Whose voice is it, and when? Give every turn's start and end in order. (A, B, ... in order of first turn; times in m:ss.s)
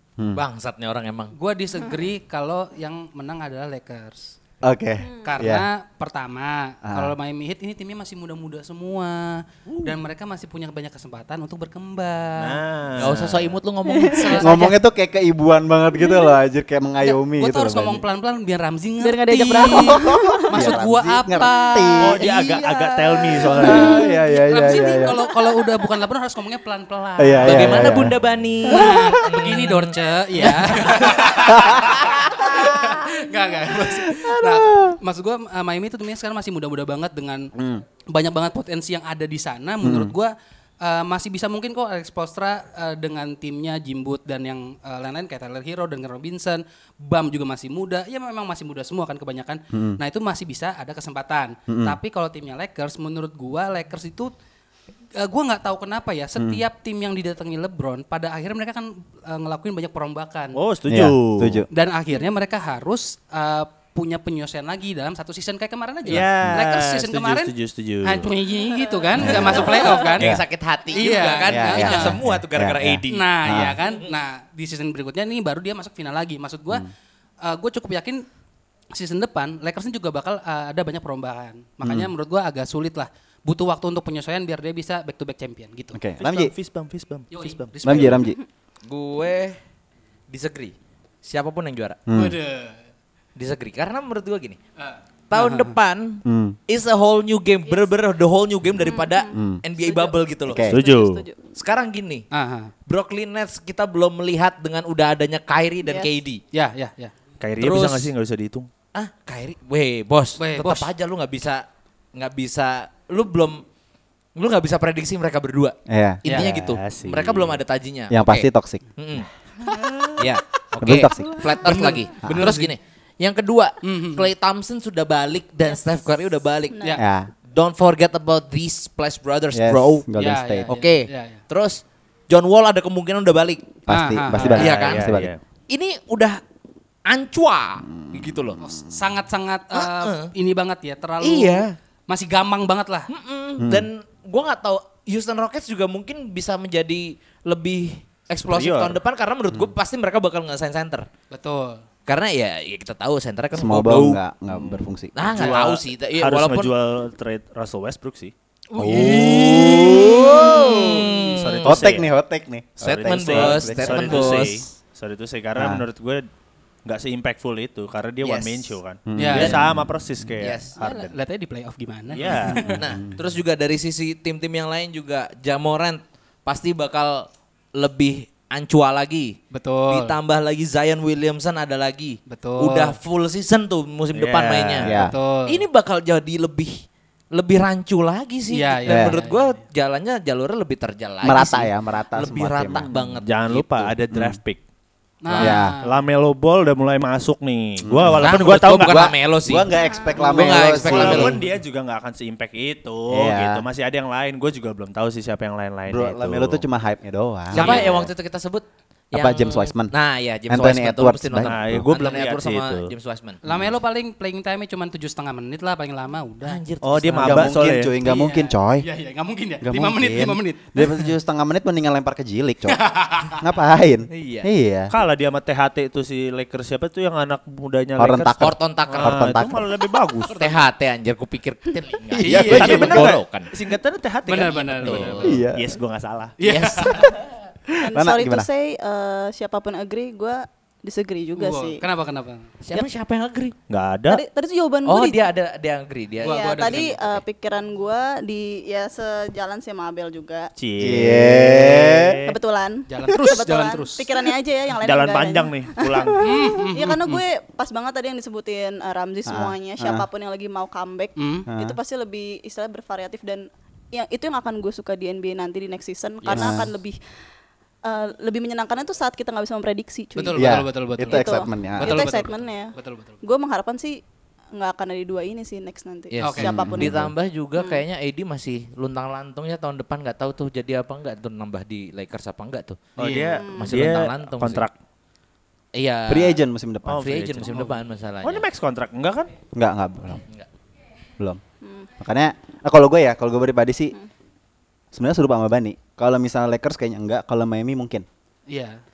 0:00.3-0:01.3 A
0:01.4-0:04.4 B
0:04.6-0:05.7 C
0:05.0-0:05.4 D
0:05.2-0:12.6 B
0:06.8-0:07.1 C
0:12.4-0:13.6 E
0:13.0-0:14.8 A
0:13.9-0:14.5 D
0:14.1-0:14.6 B
0:14.4-0:18.0 C
0:16.0-0:16.3 D
0:17.0-0:22.4 B
0:19.0-0:20.8 D
0:19.6-0:22.3 C
0:22.0-0:24.0 E
0:22.2-0:24.1 D
0:23.6-0:25.2 C
0:23.6-0:27.9 B
0:27.2-0:28.1 C
0:27.4-0:31.7 A
0:28.7-0:37.5 B
0:28.8-0:29.0 D
0:31.5-0:32.6 C
0:33.8-0:35.0 C
0:37.6-0:37.8 C
0:38.1-0:54.3 B
0:39.8-0:40.1 C
0:49.7-0:50.0 C
0:51.7-0:52.0 C
0:55.2-1:00.6 B
0:56.4-0:56.6 C
1:00.5-1:01.6 E
1:00.9-1:01.7 C
1:01.7-1:07.5 B
1:06.1-1:08.3 E
1:06.1-1:06.6 C
1:08.0-1:10.3 B
1:09.2-1:09.6 C
1:09.2-1:14.1 A
1:09.5-1:10.1 D
1:10.9-1:12.2 B
1:11.5-1:13.8 C
1:13.1-1:16.9 B
1:17.4-1:18.2 B
1:18.9-1:26.0 B
1:21.8-1:22.1 C
1:25.9-1:26.5 C
1:26.2-1:28.2 E
1:27.3-1:28.2 B
1:27.8-1:28.4 C
1:28.8-1:29.6 A
1:30.3-1:32.0 A
1:32.1-1:32.4 C
1:32.1-1:32.8 B
1:33.4-1:34.6 A
1:34.8-1:35.8 B
1:35.3-1:40.7 A
1:36.2-1:36.6 C
1:38.8-1:41.4 D
1:39.3-1:39.6 C
1:40.5-1:40.8 C
1:40.6-1:41.2 E
1:41.6-1:42.3 A
1:42.3-1:42.7 B
1:42.9-1:46.4 A
1:45.8-1:46.1 D
1:46.5-1:47.1 B
1:47.4-1:48.7 E
1:47.6-1:48.1 A
1:48.9-1:53.6 A
1:50.4-1:50.9 B
1:54.4-1:59.3 A
1:55.9-1:56.5 C
1:56.5-1:57.6 E
1:58.1-1:58.8 C
2:00.2-2:06.8 A
2:00.8-2:01.5 C
2:01.6-2:02.7 B
2:02.2-2:02.5 C
2:03.8-2:04.3 B
2:06.7-2:07.0 D
2:07.0-2:07.3 C
2:07.5-2:10.0 A
2:09.5-2:10.7 C
2:10.2-2:11.4 B
2:10.7-2:13.8 A
2:13.9-2:15.3 C
2:13.9-2:14.6 B
2:14.4-2:15.4 E
2:14.5-2:15.1 A
2:15.7-2:16.4 A
2:17.1-2:18.6 A
2:17.9-2:18.9 C
2:18.6-2:23.1 B
2:19.7-2:20.3 A
2:21.2-2:21.8 A
2:23.1-2:31.1 A
2:23.6-2:23.9 C
2:28.4-2:29.0 E
2:31.3-2:31.8 B
2:32.1-2:34.2 A
2:33.5-2:35.5 C
2:34.6-2:38.3 E
2:35.2-2:36.7 A
2:38.8-2:41.8 A
2:38.8-2:41.1 C
2:41.2-2:42.1 E
2:41.6-2:44.4 C
2:42.8-2:44.7 A
2:42.8-2:46.3 E
2:45.6-2:45.8 C
2:46.8-2:51.2 E
2:48.2-2:48.8 A
2:49.1-2:49.9 C
2:49.2-2:49.6 B
2:50.4-2:50.8 A
2:50.8-2:52.7 B
2:52.1-2:52.8 E
2:52.5-2:53.2 C
2:52.7-2:59.4 A
2:59.5-3:00.2 B
2:59.9-3:04.9 A
3:02.3-3:03.0 B
3:04.1-3:05.0 E
3:04.8-3:05.1 C
3:04.9-3:05.6 B
3:05.5-3:06.8 A
3:07.3-3:13.9 A
3:08.5-3:09.6 B
3:08.9-3:09.1 C
3:11.2-3:12.9 C
3:12.9-3:14.6 E
3:14.1-3:14.4 C
3:15.2-3:16.0 B
3:15.3-3:19.2 E
3:15.4-3:15.8 C
3:17.8-3:18.3 C
3:18.2-3:21.4 A
3:19.4-3:21.4 C
3:19.8-3:20.3 D
3:20.8-3:26.6 E
3:23.1-3:23.6 C
3:25.9-3:28.1 C
3:27.5-3:33.4 A
3:27.6-3:27.9 E
3:29.1-3:29.9 C
3:30.5-3:31.9 C
3:31.4-3:32.9 E
3:33.4-3:36.6 B
3:36.4-3:37.6 A
3:36.8-3:38.0 E
3:37.2-3:38.9 C
3:38.0-3:41.0 B
3:39.6-3:42.8 C
3:42.7-3:43.4 B
3:43.3-3:44.9 C
3:44.1-3:44.5 A
3:44.9-3:48.4 E
3:48.0-3:49.7 C
3:48.4-3:49.3 A
3:48.9-3:50.6 E
3:50.3-3:53.5 A
3:52.2-3:53.1 C
3:52.2-3:52.9 B
3:52.3-3:56.4 E
3:54.3-3:55.4 B
3:54.8-3:55.4 A
3:55.2-3:55.8 C
3:56.4-3:57.2 B
3:56.4-3:57.4 A
3:57.7-3:58.5 C
3:57.8-4:01.8 D
4:01.4-4:02.5 B
4:02.6-4:03.6 A
4:03.7-4:04.2 E
4:04.1-4:05.3 D
4:04.9-4:07.2 A
4:06.2-4:07.0 B
4:06.2-4:10.5 D
4:10.6-4:12.4 E
4:10.8-4:12.2 C
4:12.3-4:27.0 D
4:12.9-4:14.3 B
4:14.8-4:16.3 E
4:16.2-4:17.2 B
4:19.3-4:20.1 C
4:21.2-4:21.5 B
4:21.5-4:21.8 C
4:26.2-4:26.5 A
4:26.3-4:26.7 C
4:27.8-4:30.5 D
4:30.2-4:33.2 B
4:30.4-4:32.1 C
4:31.1-4:34.0 D
4:34.6-4:37.0 D
4:36.1-4:44.7 A
4:36.2-4:36.6 B
4:36.4-4:37.1 C
4:37.6-4:37.8 D
4:43.0-4:44.8 E
4:43.0-4:43.4 B
4:43.4-4:43.8 D
4:45.7-4:46.4 A
4:46.1-4:47.4 C
4:46.9-4:47.7 E
4:46.9-4:48.4 A
4:48.2-4:49.3 E
4:49.5-4:50.2 C
4:51.6-4:51.9 D
4:52.0-4:54.0 C
4:54.9-4:58.1 C
4:58.5-4:58.8 B